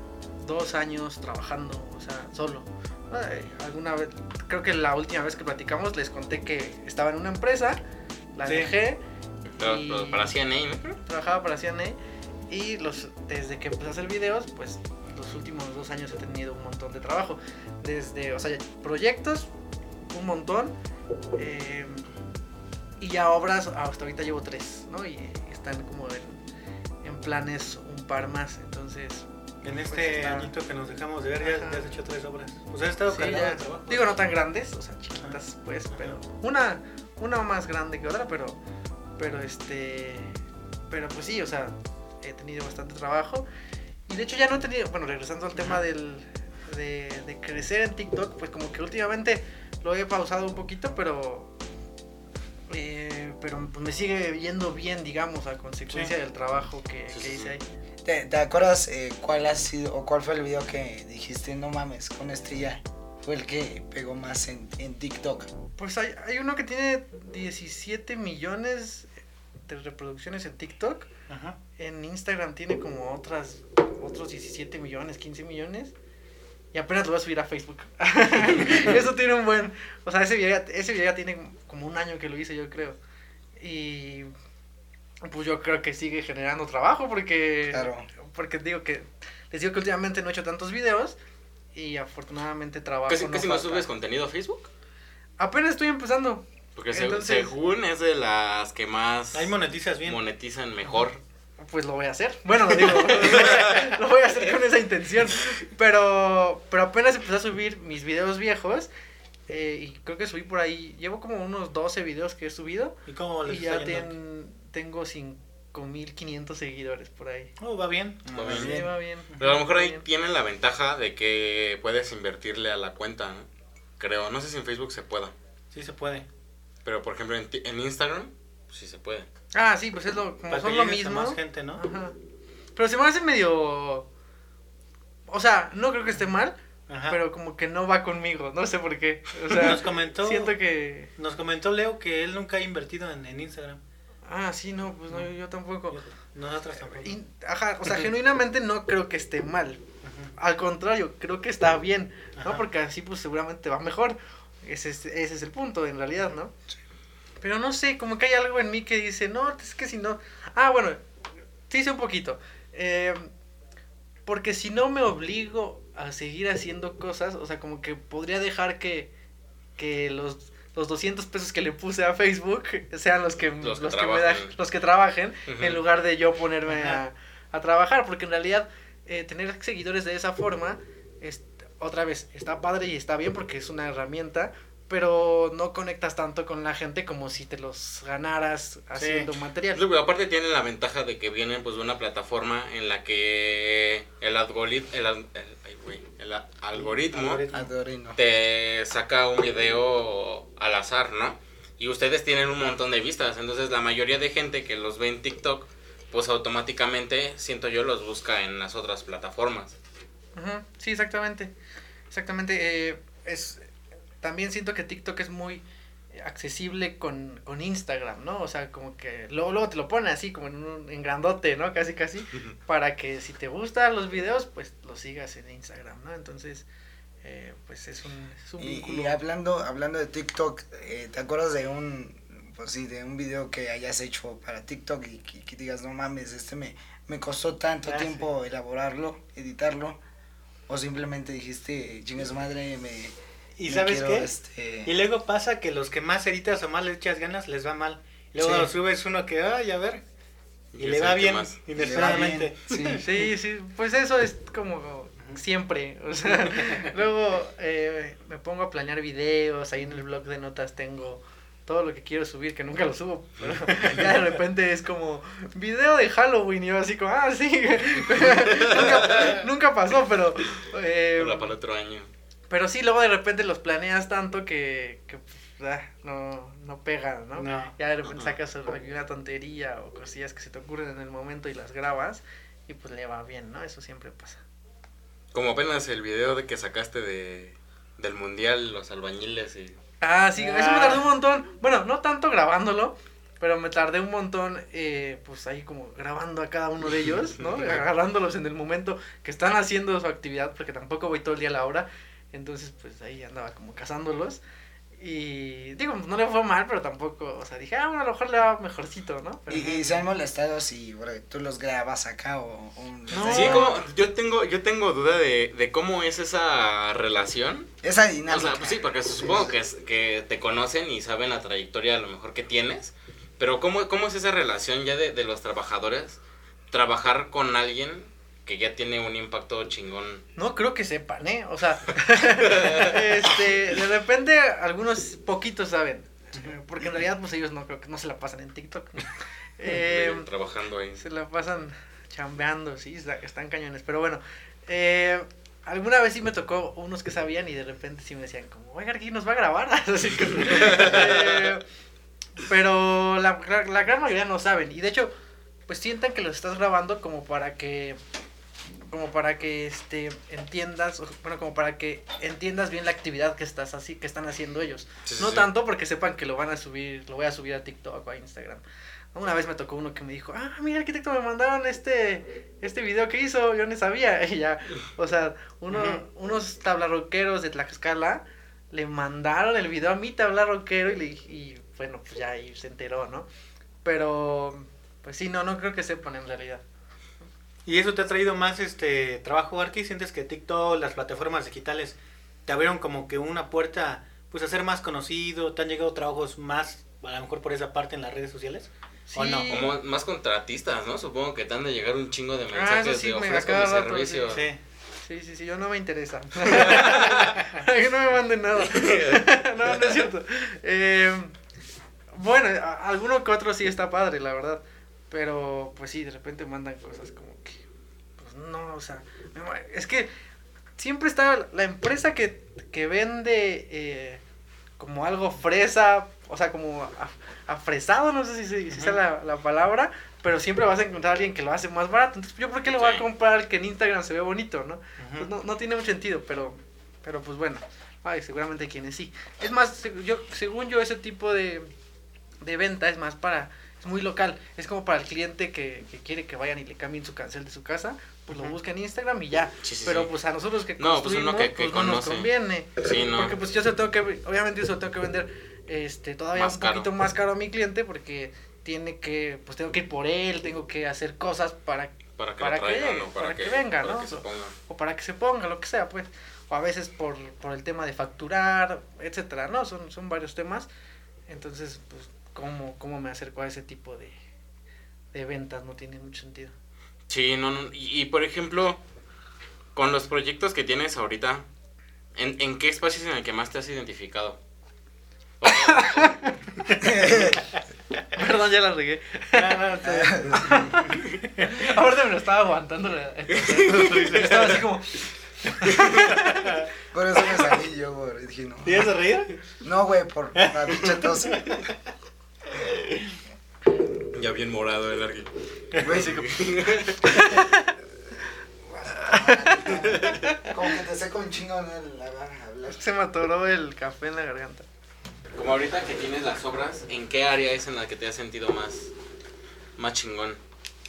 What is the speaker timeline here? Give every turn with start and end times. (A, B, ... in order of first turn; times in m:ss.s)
0:00.4-0:07.8 A
0:08.3-0:09.0 A
0:08.4-0:08.7 B
0:09.5-0:11.0 C
0:09.6-0:10.3 A
0:11.0-0:12.0 A
0:12.5-0:19.5 A
0:20.1-0:20.7 A
0:21.4-0:22.0 A
0:23.0-0:26.4 A
0:27.0-0:29.2 A
0:29.6-0:34.0 B
0:29.8-0:30.5 A
0:31.4-0:31.9 A
0:33.1-0:38.6 A
0:39.2-0:40.3 A
0:40.9-0:43.4 A
0:44.1-0:51.5 A
0:52.7-0:57.6 A
0:57.1-0:57.5 C
0:58.0-1:05.5 D
1:05.8-1:09.1 A
1:09.7-1:11.1 A
1:11.3-1:11.6 B
1:11.8-1:15.9 A
1:16.7-1:23.0 A
1:23.6-1:24.3 A
1:25.2-1:31.2 A
1:27.7-1:28.0 D
1:31.7-1:33.9 A
1:33.1-1:34.7 C
1:35.4-1:37.5 A
1:36.8-1:41.2 C
1:39.3-1:40.2 B
1:41.6-1:48.9 A
1:49.5-1:57.5 A
1:53.0-1:54.1 B
1:57.6-1:58.7 B
1:58.2-1:58.9 D
1:58.3-1:58.8 C
1:58.5-2:00.0 A
1:59.4-2:03.5 C
2:04.0-2:05.3 C
2:05.7-2:06.3 B
2:06.8-2:09.3 C
2:09.5-2:12.2 A
2:10.5-2:11.8 B
2:12.8-2:14.1 A
2:15.3-2:16.6 A
2:16.9-2:17.2 B
2:17.1-2:21.1 A
2:19.5-2:20.6 B
2:21.2-2:23.8 B
2:24.2-2:26.0 A
2:25.9-2:27.2 B
2:26.8-2:29.8 A
2:30.0-2:30.3 B
2:30.4-2:36.5 A
2:32.4-2:32.6 B
2:37.4-2:41.0 A
2:41.7-2:43.3 A
2:44.2-2:49.1 A
2:49.8-3:09.8 A
2:53.6-2:54.5 C
2:55.5-2:55.8 C
2:56.7-2:57.0 B
3:09.0-3:09.3 B
3:09.7-3:17.4 C
3:16.7-3:17.7 B
3:17.5-3:18.2 D
3:18.2-3:29.8 C
3:30.3-3:31.5 A
3:32.1-3:33.7 A
3:34.2-3:35.6 A
3:36.1-3:46.6 A
3:47.2-3:49.2 A
3:48.6-4:00.0 D
3:57.9-3:58.2 B
4:00.7-4:03.1 D
4:03.6-4:04.3 B
4:03.6-4:04.9 D
4:04.8-4:10.0 B
4:08.4-4:08.7 D
4:10.7-4:11.6 C
4:10.8-4:13.3 B
4:11.8-4:13.0 D
4:13.0-4:31.5 A
4:16.3-4:16.9 B
4:28.2-4:29.3 C
4:31.2-4:32.1 C
4:32.5-4:44.4 A
4:37.4-4:37.7 B
4:38.1-4:38.4 C
4:45.3-4:49.8 C
4:50.0-5:04.4 A
4:50.4-4:51.1 B
5:05.0-5:10.0 A
5:09.5-5:13.7 D
5:13.1-5:13.8 A
5:13.2-5:17.7 C
5:17.8-5:19.5 D
5:18.3-5:26.2 C
5:26.7-5:30.2 C
5:30.4-5:40.3 A
5:32.5-5:32.9 C
5:39.7-5:41.0 C
5:41.0-5:51.6 A
5:50.6-5:50.9 C
5:52.4-5:55.1 A
5:55.7-5:58.0 A
5:58.9-6:08.6 A
6:05.0-6:05.5 C
6:09.1-6:23.3 A
6:15.7-6:16.0 B
6:23.8-6:26.6 A
6:27.6-6:39.5 B
6:39.1-6:39.7 A
6:39.5-6:44.4 C
6:42.5-6:44.4 A
6:44.3-6:44.6 B
6:45.0-6:51.3 A
6:46.5-6:47.3 C
6:48.6-6:49.9 C
6:52.1-6:57.6 A
6:58.2-7:00.1 A
7:00.8-7:04.2 A
7:04.8-7:21.7 A
7:08.7-7:09.0 B
7:12.7-7:13.0 C
7:15.0-7:15.3 B
7:22.4-7:50.7 A
7:28.3-7:28.6 B
7:29.6-7:30.1 C
7:30.8-7:33.4 C
7:36.3-7:36.9 C
7:42.2-7:44.5 C
7:51.3-7:54.1 A
7:55.1-7:56.5 A
7:57.1-7:58.8 C
7:59.7-8:01.4 C
8:02.2-8:04.4 C
8:05.4-8:06.2 C
8:05.4-8:06.3 A
8:06.8-8:07.3 D
8:08.1-8:09.6 A
8:09.3-8:11.7 B
8:09.8-8:10.7 D
8:10.4-8:10.9 A
8:11.4-8:16.5 A
8:13.4-8:14.2 C
8:13.4-8:14.6 B
8:16.9-8:18.9 D
8:18.6-8:19.4 B
8:19.6-8:21.5 D
8:20.4-8:21.7 B
8:24.1-8:27.4 C
8:25.8-8:26.3 B
8:25.8-8:26.3 D
8:27.3-8:27.7 A
8:28.7-8:32.8 D
8:29.1-8:30.5 A
8:32.7-8:34.6 A
8:35.3-8:38.9 C
8:39.8-8:40.4 C